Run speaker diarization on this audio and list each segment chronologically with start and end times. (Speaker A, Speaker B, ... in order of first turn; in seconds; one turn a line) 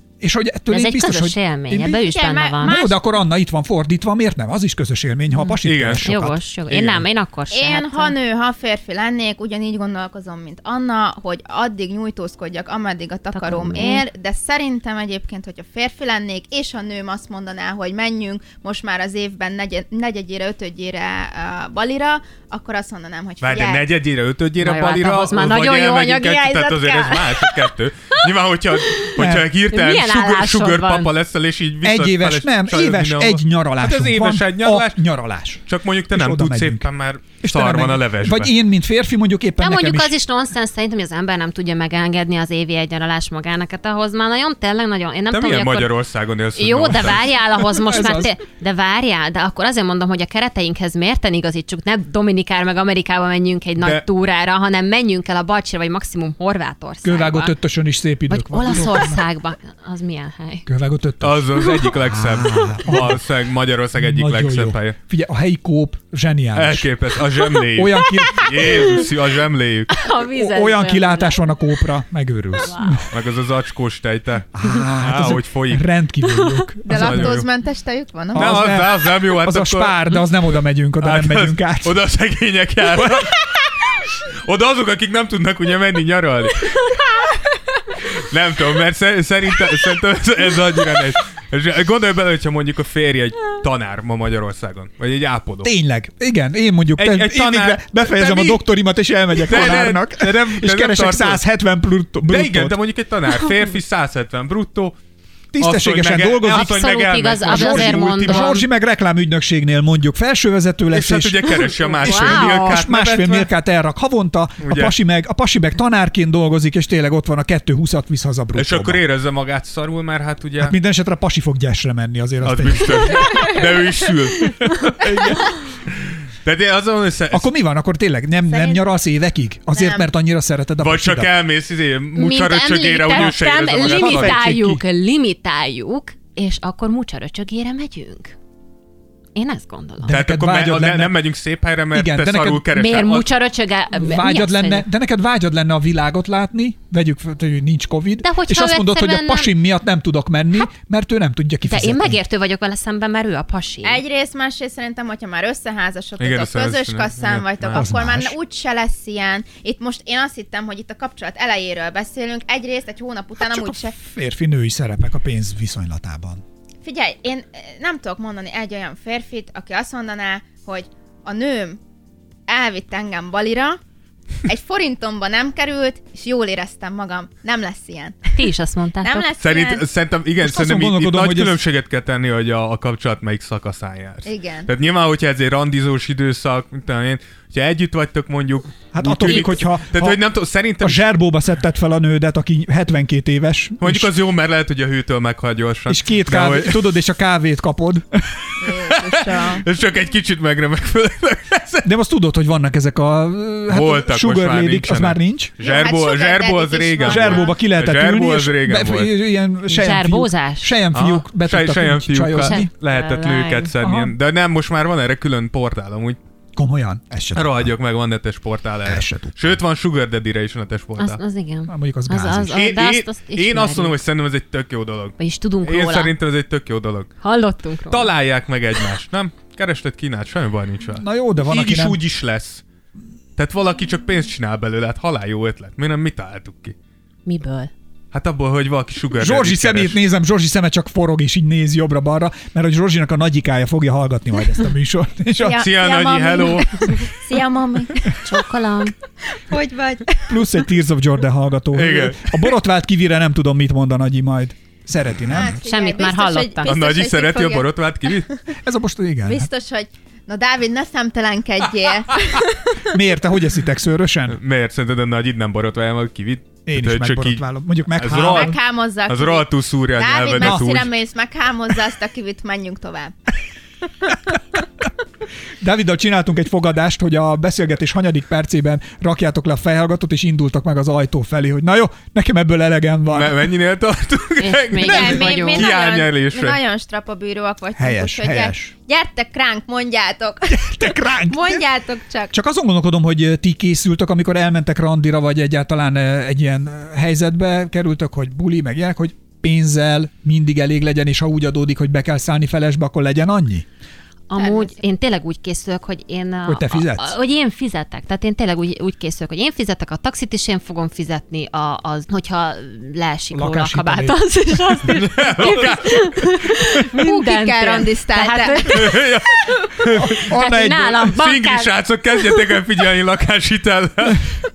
Speaker A: 0.2-2.0
Speaker B: 0.7-2.8
Speaker C: 2.0-3.0
Speaker A: 2.6-6.4
Speaker B: 5.3-8.1
Speaker D: 5.6-6.1
Speaker D: 6.7-7.0
Speaker C: 7.5-23.9
Speaker B: 13.3-14.0
Speaker D: 23.4-35.0
Speaker B: 24.6-27.7
Speaker B: 28.8-29.1
Speaker A: 29.2-29.5
Speaker B: 29.7-31.1
Speaker A: 31.8-36.9
Speaker D: 35.6-38.5
Speaker A: 37.4-40.1
Speaker B: 39.6-45.9
Speaker D: 45.3-47.4
Speaker B: 46.5-57.5
Speaker A: 47.8-48.3
Speaker A: 57.0-59.2
Speaker B: 58.3-60.7
Speaker A: 60.6-63.2
Speaker D: 61.2-65.0
Speaker A: 64.0-66.9
Speaker D: 66.5-70.0
Speaker A: 67.7-69.0
Speaker B: 68.2-69.0
Speaker B: 69.9-71.4
Speaker A: 70.3-73.1
Speaker B: 72.5-73.1
Speaker D: 73.1-75.9
Speaker A: 74.5-77.4
Speaker B: 76.3-76.6
Speaker C: 76.8-78.7
Speaker D: 76.9-77.4
Speaker A: 78.3-82.0
Speaker D: 78.3-80.2
Speaker D: 81.0-83.4
Speaker D: 84.2-87.0
Speaker D: 88.0-95.7
Speaker A: 95.6-102.8
Speaker D: 97.0-98.6
Speaker D: 99.4-101.4
Speaker D: 102.3-105.0
Speaker A: 105.5-106.9
Speaker D: 105.6-108.6
Speaker B: 106.5-108.6
Speaker A: 107.4-119.0
Speaker D: 110.9-113.5
Speaker B: 112.0-112.8
Speaker D: 114.6-114.9
Speaker D: 118.5-120.8
Speaker A: 120.6-123.5
Speaker D: 122.4-125.4
Speaker A: 124.8-125.5
Speaker D: 126.4-127.5
Speaker A: 127.3-131.3
Speaker C: 128.5-128.8
Speaker C: 129.7-130.1
Speaker D: 130.8-134.4
Speaker B: 132.2-138.3
Speaker A: 133.8-134.8
Speaker B: 139.3-140.2
Speaker A: 140.0-141.2
Speaker D: 140.1-143.3
Speaker A: 141.9-142.7
Speaker B: 142.7-144.8
Speaker A: 143.9-152.2
Speaker B: 148.2-149.5
Speaker B: 151.6-154.0
Speaker C: 153.8-163.9
Speaker D: 156.2-157.9
Speaker A: 157.7-158.3
Speaker A: 163.4-166.4
Speaker C: 166.8-171.8
Speaker C: 172.5-173.8
Speaker C: 174.4-178.3
Speaker B: 178.3-179.3
Speaker C: 179.0-179.8
Speaker D: 179.4-191.1
Speaker A: 180.4-181.6
Speaker C: 184.2-184.7
Speaker A: 188.9-190.2
Speaker A: 190.8-194.1
Speaker D: 193.8-196.9
Speaker A: 195.9-198.5
Speaker C: 198.6-199.6
Speaker D: 198.9-201.9
Speaker A: 201.8-205.5
Speaker D: 203.7-209.1
Speaker C: 205.6-207.5
Speaker A: 207.0-212.7
Speaker B: 209.7-210.8
Speaker D: 210.9-216.2
Speaker B: 212.4-213.7
Speaker A: 213.8-214.1
Speaker A: 216.6-217.7
Speaker D: 217.3-221.2
Speaker A: 218.8-219.6
Speaker B: 221.0-223.9
Speaker A: 221.7-222.6
Speaker D: 222.5-227.1
Speaker B: 225.2-226.1
Speaker B: 227.2-228.1
Speaker D: 227.9-232.6
Speaker A: 230.9-232.0
Speaker D: 233.4-236.7
Speaker B: 237.2-237.7
Speaker D: 238.1-240.0
Speaker A: 239.2-245.7
Speaker C: 245.4-248.2
Speaker D: 245.6-247.1
Speaker B: 248.2-248.9
Speaker C: 249.3-250.5
Speaker A: 250.2-255.6
Speaker D: 251.7-252.4
Speaker C: 255.3-258.3
Speaker B: 255.6-256.7
Speaker D: 256.6-258.3
Speaker A: 258.5-259.5
Speaker C: 259.2-262.8
Speaker A: 262.8-264.4
Speaker D: 264.3-270.9
Speaker A: 266.6-268.5
Speaker C: 268.2-273.1
Speaker A: 270.4-270.7
Speaker A: 275.6-283.5
Speaker D: 283.1-286.6
Speaker B: 284.4-285.7
Speaker C: 284.8-292.3
Speaker A: 287.8-288.7
Speaker A: 290.5-291.6
Speaker A: 292.3-303.6
Speaker B: 304.3-319.0
Speaker C: 304.4-304.8
Speaker A: 306.4-307.1
Speaker A: 313.3-314.8
Speaker D: 314.9-316.3
Speaker C: 316.9-319.0
Speaker D: 318.6-320.3
Speaker A: 319.9-321.1
Speaker B: 320.2-322.4
Speaker D: 321.1-324.3